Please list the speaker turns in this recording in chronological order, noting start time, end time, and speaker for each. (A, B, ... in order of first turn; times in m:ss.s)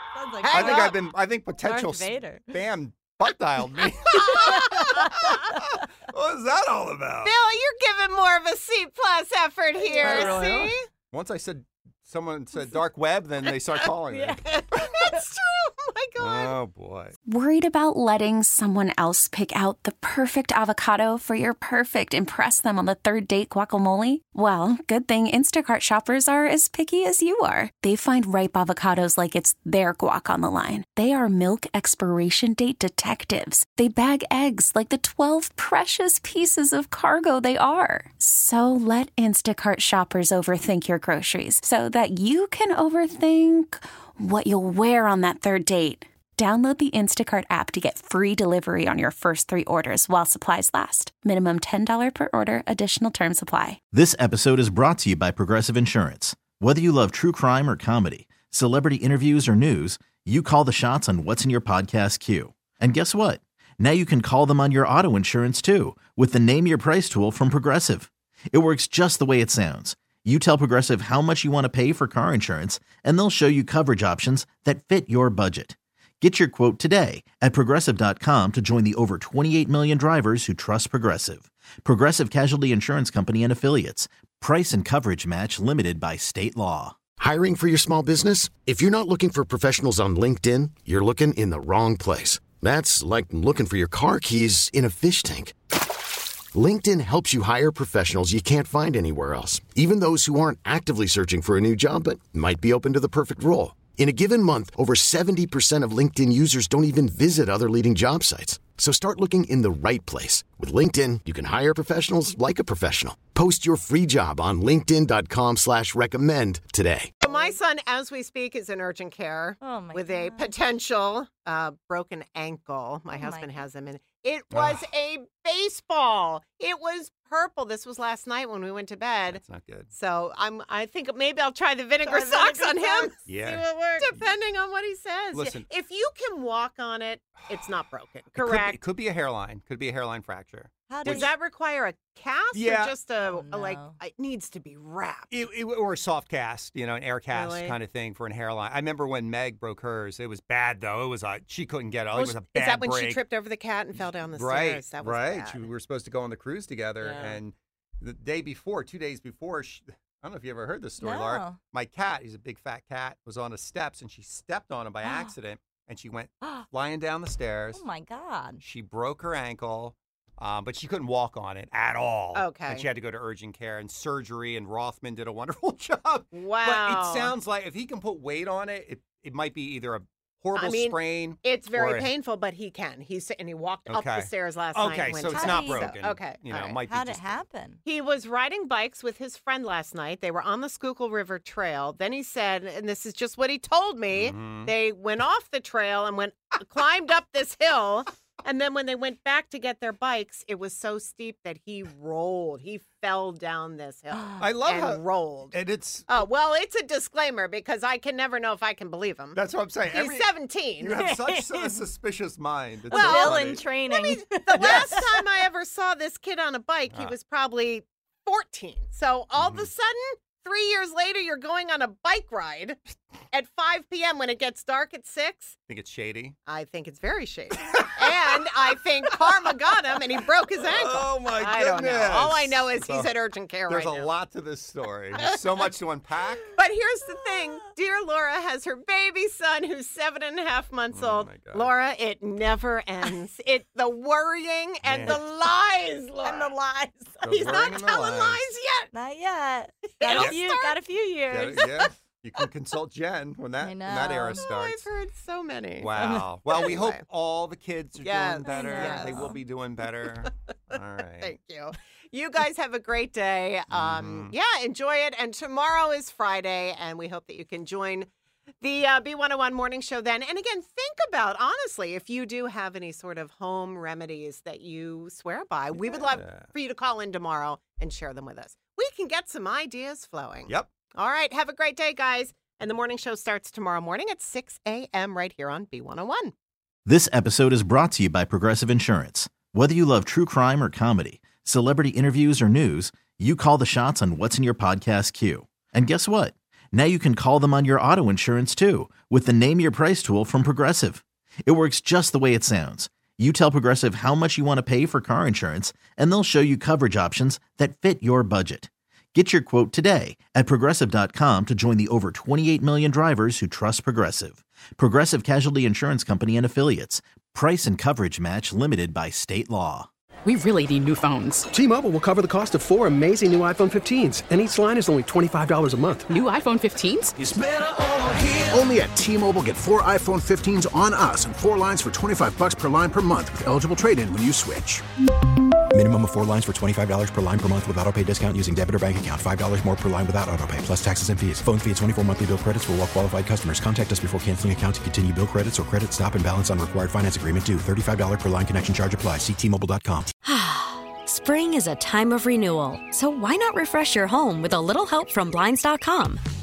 0:00.1-0:01.0 A
0:00.4-0:01.0 B
0:00.5-0:07.4 C
0:01.6-0:02.6 A
0:04.1-0:05.3 B
0:04.4-0:05.4 A
0:07.2-0:10.8 B
0:09.8-0:10.7 A
0:10.0-0:14.8 C
0:14.1-0:16.6 B
0:16.2-0:17.2 C
0:17.3-0:53.8 D
0:53.9-1:27.0 E
1:27.2-1:35.6 F
1:36.5-1:57.1 F
1:57.2-2:09.4 B
1:59.6-2:00.5 A
2:03.1-2:03.6 A
2:04.5-2:04.8 C
2:09.3-2:09.9 C
2:09.9-2:18.8 B
2:12.0-2:13.2 A
2:13.3-2:14.2 C
2:15.3-2:15.7 C
2:18.3-2:21.3 C
2:20.9-2:21.3 A
2:21.0-2:25.4 B
2:22.5-2:23.0 C
2:23.2-2:24.0 A
2:25.3-2:33.2 C
2:27.3-2:27.8 B
2:32.1-2:35.7 B
2:33.9-2:47.8 C
2:37.0-2:37.4 B
2:41.0-2:41.6 A
2:45.0-2:45.3 A
2:47.7-2:48.6 A
2:48.6-3:02.1 C
2:52.3-2:52.9 B
2:56.3-2:57.4 B
3:00.6-3:06.8 B
3:03.9-3:07.4 C
3:05.3-3:05.9 A
3:06.8-3:07.8 A
3:07.8-3:31.0 B
3:14.1-3:14.7 C
3:24.1-3:24.5 A
3:24.4-3:26.2 C
3:29.4-3:33.6 C
3:31.0-3:31.8 A
3:32.9-3:35.3 A
3:32.9-3:45.6 B
3:34.6-3:34.9 C
3:39.4-3:39.7 C
3:45.7-3:46.4 C
3:46.5-3:54.1 B
3:47.6-3:48.4 C
3:50.6-3:53.1 C
3:53.7-3:56.5 C
3:55.2-3:55.7 B
3:56.6-4:06.5 B
4:00.9-4:01.7 C
4:04.8-4:05.2 C
4:06.2-4:07.4 A
4:07.2-4:08.5 C
4:07.2-4:08.9 B
4:08.9-4:11.7 A
4:09.9-4:10.8 B
4:10.1-4:10.4 C
4:11.3-4:14.9 C
4:13.6-4:14.5 A
4:14.4-4:15.9 B
4:15.8-4:21.4 C
4:16.0-4:16.6 A
4:16.5-4:17.0 B
4:18.0-4:19.4 B
4:18.5-4:19.4 A
4:21.2-4:28.1 B
4:23.7-4:24.3 C
4:28.6-4:46.3 B
4:35.8-4:36.5 C
4:46.9-5:19.9 E
5:20.3-5:21.4 G
5:21.4-5:26.2 H
5:26.2-5:27.0 G
5:28.5-5:34.8 I
5:35.7-5:50.1 J
5:50.2-5:56.2 K